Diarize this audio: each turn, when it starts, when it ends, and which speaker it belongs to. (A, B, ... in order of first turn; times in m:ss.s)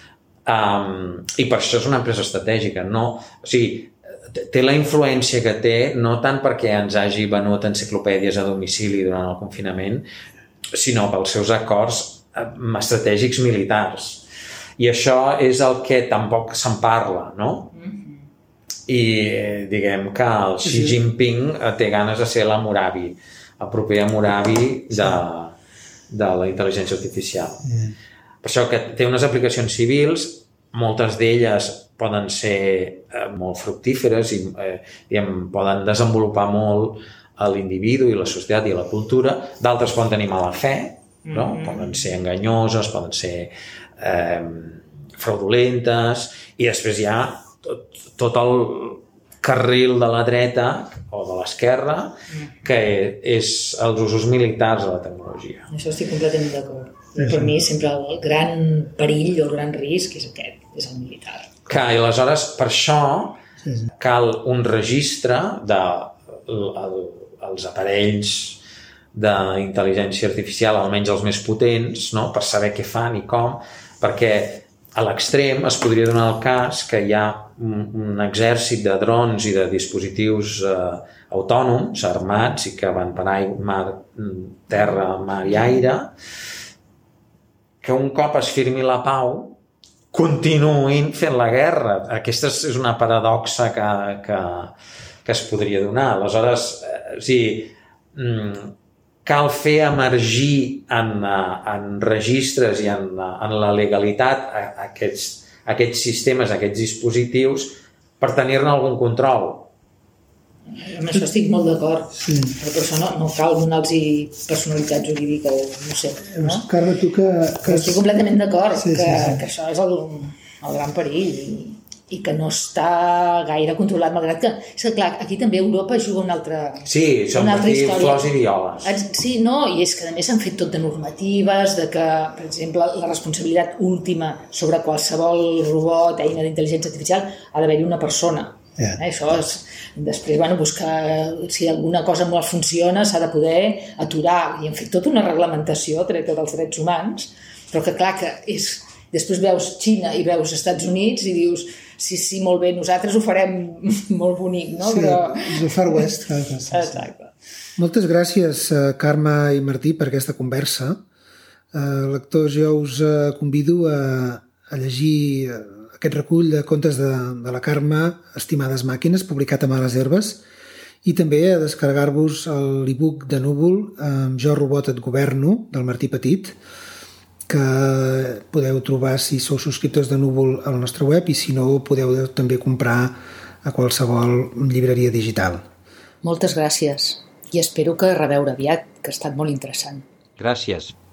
0:00.4-0:10.0 A
0:10.7-0:14.2 A
0:14.8-0:17.7 A
0:17.7-0:18.2 B
0:18.9-0:25.5 A
0:20.6-0:21.0 C
0:26.1-0:27.7 A
0:27.6-0:27.9 C
0:28.4-0:55.7 A
0:41.2-0:42.0 B
0:55.7-1:01.5 B
0:57.2-0:57.5 C
1:01.7-1:03.4 A
1:03.6-1:03.9 C
1:04.0-1:08.6 A
1:09.1-1:26.1 A
1:27.8-1:29.6 A
1:30.1-1:34.7 A
1:35.2-1:38.7 A
1:39.2-1:49.7 A
1:50.7-1:56.7 B
1:52.1-1:52.6 C
1:56.3-1:58.0 C
1:57.6-2:08.3 B
1:58.8-1:59.4 C
2:06.8-2:09.0 A
2:08.8-2:36.0 B
2:34.8-2:37.0 C
2:36.7-2:37.3 B
2:37.8-2:41.0 C
2:41.7-2:50.4 C
2:51.0-2:56.6 C
2:57.5-3:05.6 C
3:06.2-3:10.1 B
3:10.4-3:10.9 A